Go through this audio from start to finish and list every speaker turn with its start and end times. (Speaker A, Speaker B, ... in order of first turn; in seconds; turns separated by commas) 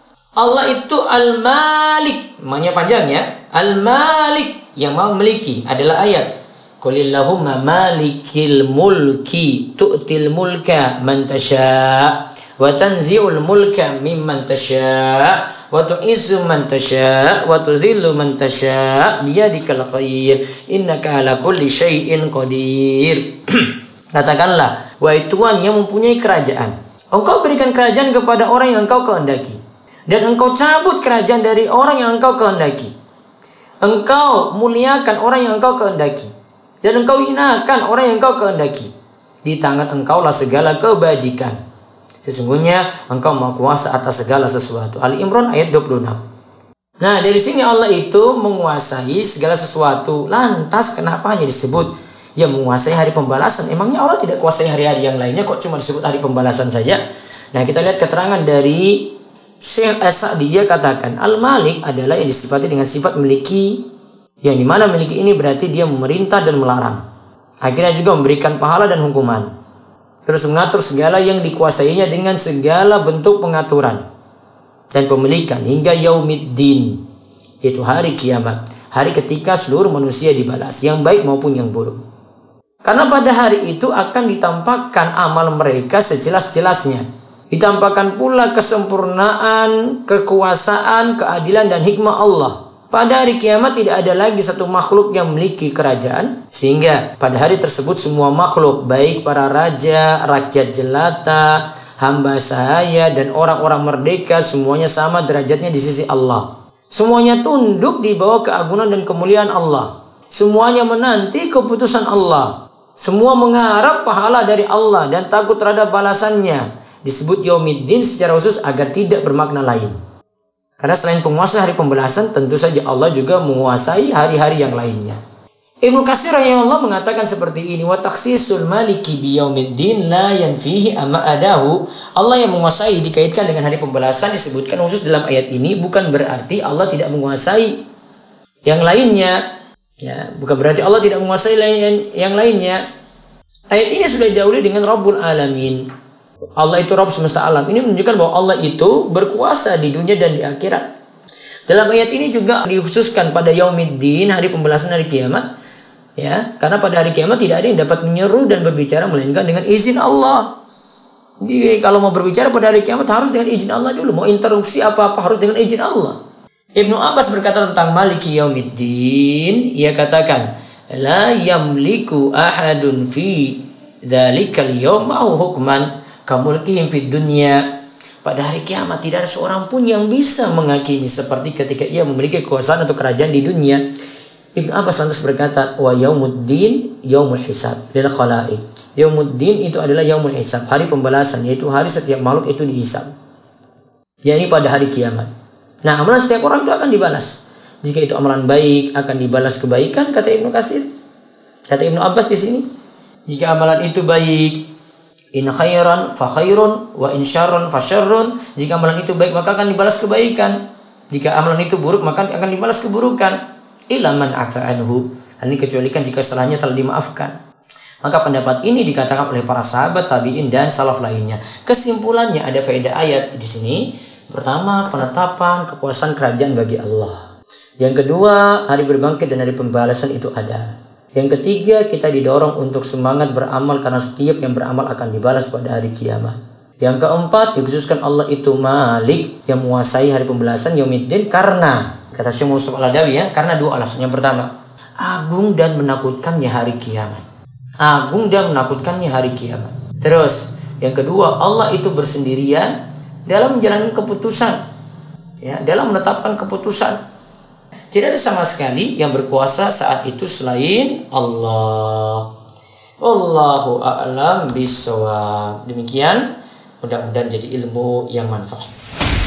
Speaker A: 0.4-6.3, Speaker A: 6.8-32.9, Speaker A: 33.8-38.9, Speaker A: 39.5-41.6, Speaker A: 42.2-46.2, Speaker A: 47.0-57.0, Speaker A: 57.5-63.8, Speaker A: 64.4-67.0, Speaker A: 67.6-69.5, Speaker A: 70.3-74.0, Speaker A: 74.9-77.0, Speaker A: 77.6-82.0, Speaker A: 82.8-120.0, Speaker A: 120.8-125.2, Speaker A: 125.8-137.8, Speaker A: 138.7-139.4, Speaker A: 140.0-142.8, Speaker A: 143.7-145.8, Speaker A: 146.6-150.8, Speaker A: 151.7-155.4, Speaker A: 156.2-160.5, Speaker A: 161.4-166.2, Speaker A: 166.8-177.6, Speaker A: 178.2-183.8, Speaker A: 184.6-193.1, Speaker A: 194.2-195.3, Speaker A: 195.8-200.9, Speaker A: 201.7-202.7, Speaker A: 203.3-204.6, Speaker A: 205.3-210.6, Speaker A: 211.1-213.4, Speaker A: 213.9-217.3, Speaker A: 218.0-227.2, Speaker A: 227.8-247.2, Speaker A: 247.8-252.7, Speaker A: 253.3-254.6, Speaker A: 255.4-257.0, Speaker A: 257.9-262.3, Speaker A: 263.0-266.2, Speaker A: 266.8-268.7